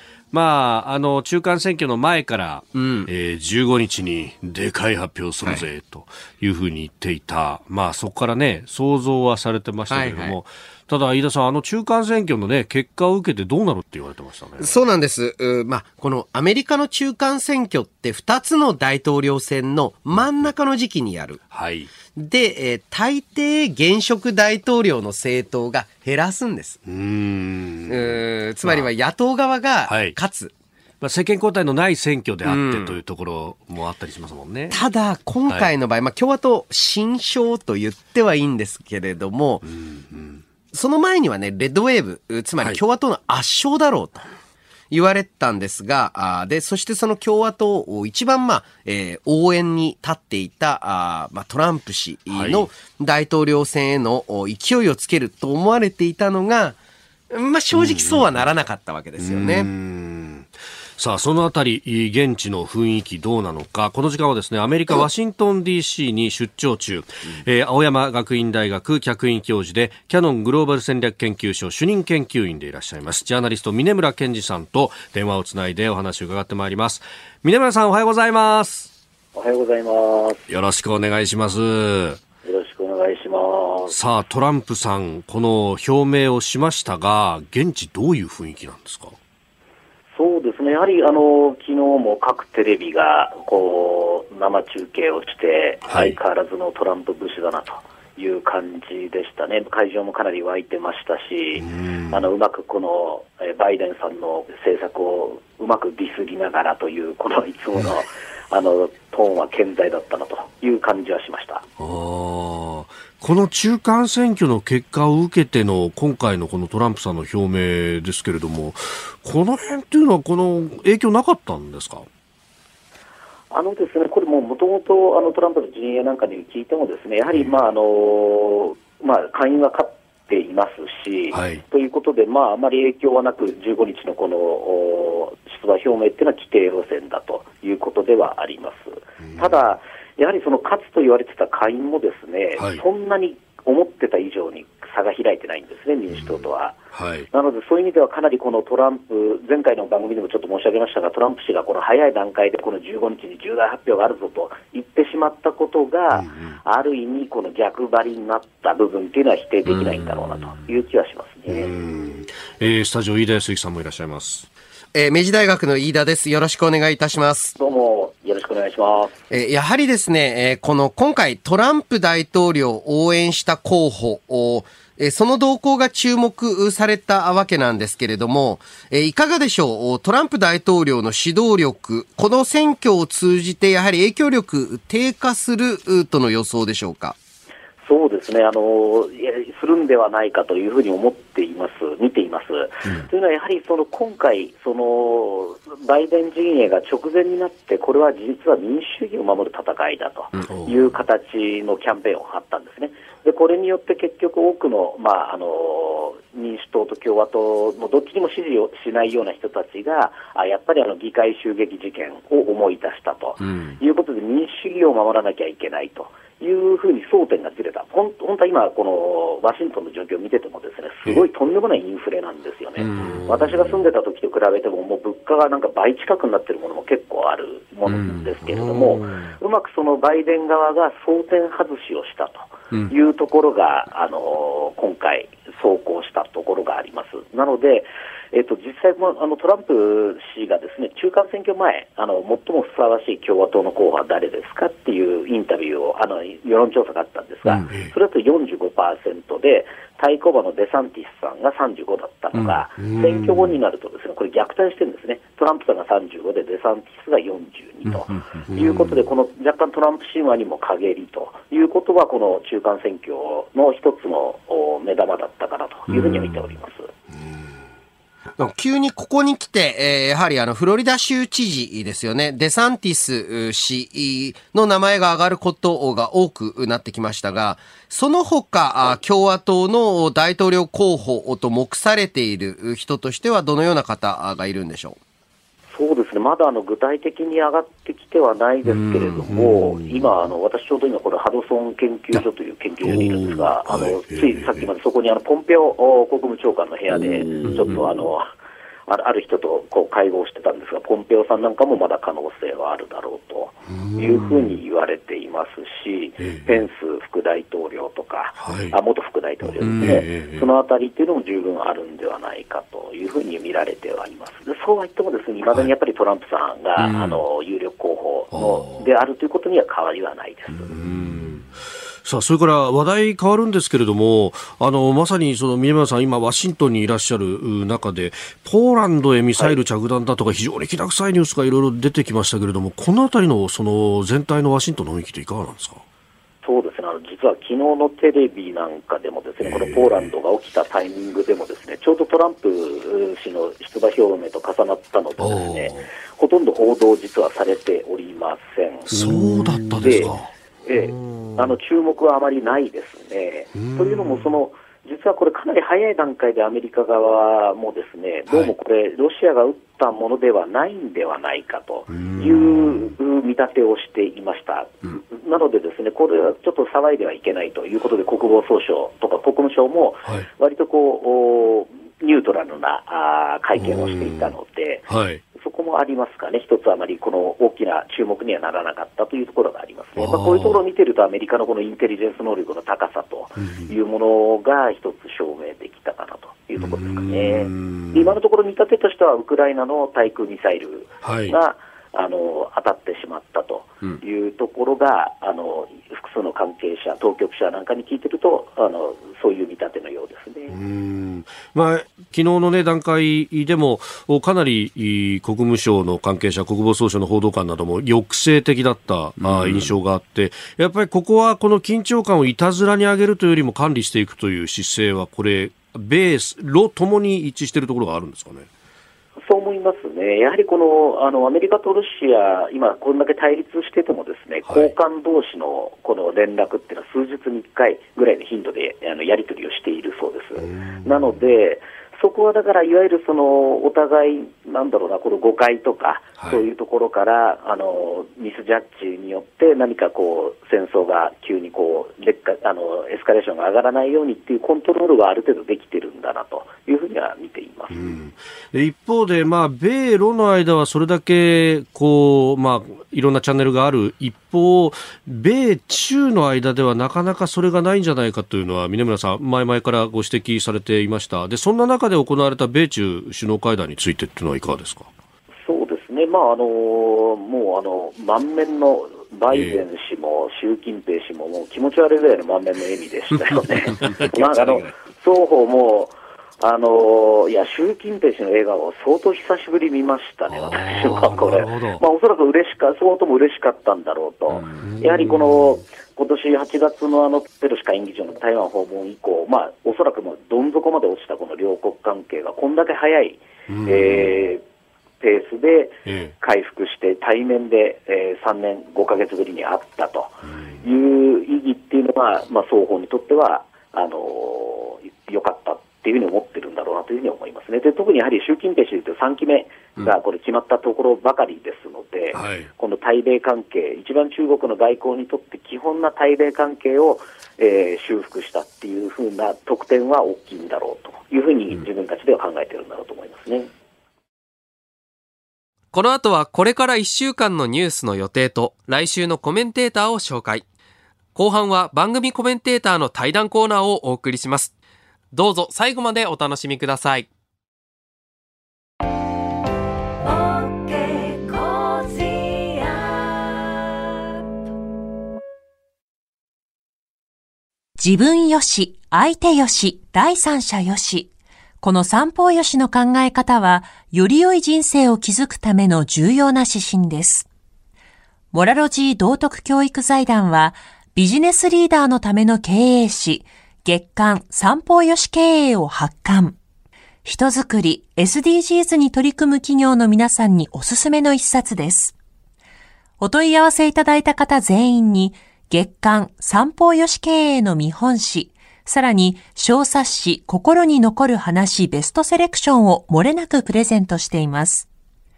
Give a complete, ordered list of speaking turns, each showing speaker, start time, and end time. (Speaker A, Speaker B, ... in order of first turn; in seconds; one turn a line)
Speaker A: 0.3-14.7
Speaker B: 2.7-3.1
Speaker B: 9.9-10.4
Speaker B: 14.6-21.4
Speaker A: 20.1-20.4
Speaker A: 21.5-21.9
Speaker B: 22.1-26.8
Speaker A: 26.8-28.9
Speaker B: 27.9-30.5
Speaker A: 29.9-30.2
Speaker A: 31.0-34.8
Speaker B: 32.4-33.0
Speaker B: 34.7-39.6
Speaker A: 39.6-40.4
Speaker B: 40.7-44.3
Speaker B: 44.9-56.8
Speaker A: 52.3-52.7
Speaker B: 57.3-59.7
Speaker A: 57.7-58.5
Speaker A: 59.2-78.9
Speaker C: 79.3-80.4
Speaker A: 80.5-82.2
Speaker C: 82.4-83.9
Speaker A: 83.9-89.2
Speaker C: 90.1-111.6
Speaker A: 95.9-96.2
Speaker A: 101.6-102.2
Speaker A: 111.8-122.0
Speaker C: 123.5-146.8
Speaker A: 131.3-131.6
Speaker A: 139.2-139.6
Speaker A: 142.6-142.8
Speaker A: 146.1-147.3
Speaker C: 147.3-161.7
Speaker A: 156.1-156.6
Speaker A: 159.7-160.6
Speaker A: 161.5-164.5
Speaker B: 164.9-167.6
Speaker C: 167.6-169.2
Speaker B: 169.3-187.2
Speaker C: 187.8-266.9
Speaker A: 200.4-200.8
Speaker A: 213.4-213.8
Speaker A: 222.8-223.8
Speaker A: 227.9-229.3
Speaker A: 247.4-247.9
Speaker A: 252.3-253.5
Speaker A: 257.9-259.0
Speaker A: 265.9-266.4
Speaker B: 268.4-285.0
Speaker C: 285.7-298.3
Speaker A: 288.6-290.1
Speaker A: 292.8-294.7
Speaker A: 296.9-297.9
Speaker C: 298.9-320.8
Speaker A: 303.7-304.6
Speaker A: 306.2-306.6
Speaker A: 308.4-308.8
Speaker A: 309.6-310.5
Speaker A: 316.8-317.2
Speaker A: 318.3-318.9
Speaker A: 320.5-321.5
Speaker A: 322.0-335.8
Speaker C: 336.4-400.5
Speaker A: 339.4-340.1
Speaker A: 345.2-345.9
Speaker A: 348.9-351.5
Speaker A: 353.5-354.2
Speaker A: 361.9-362.9
Speaker A: 373.6-374.3
Speaker A: 374.9-375.2
Speaker A: 379.9-380.6
Speaker A: 383.4-383.7
Speaker A: 386.6-388.1
Speaker A: 391.0-391.4
Speaker A: 400.5-418.5
Speaker C: 419.2-447.9
Speaker A: 424.4-424.7
Speaker A: 430.4-431.1
Speaker A: 436.2-436.4
Speaker A: 447.7-464.9
Speaker C: 465.4-494.4
Speaker A: 469.3-469.6
Speaker A: 473.8-474.7
Speaker A: 480.3-481.8
Speaker A: 484.4-485.6
Speaker A: 493.5-494.2
Speaker C: 495.0-523.5
Speaker A: 495.9-496.1
Speaker A: 512.1-512.5
Speaker D: 525.7-530.5
Speaker D: 531.1-534.5
Speaker D: 535.1-537.1
Speaker E: 540.0-543.0
Speaker E: 547.8-551.1
Speaker E: 551.6-557.2
Speaker E: 558.3-566.4
Speaker E: 567.0-571.9
Speaker E: 573.0-584.7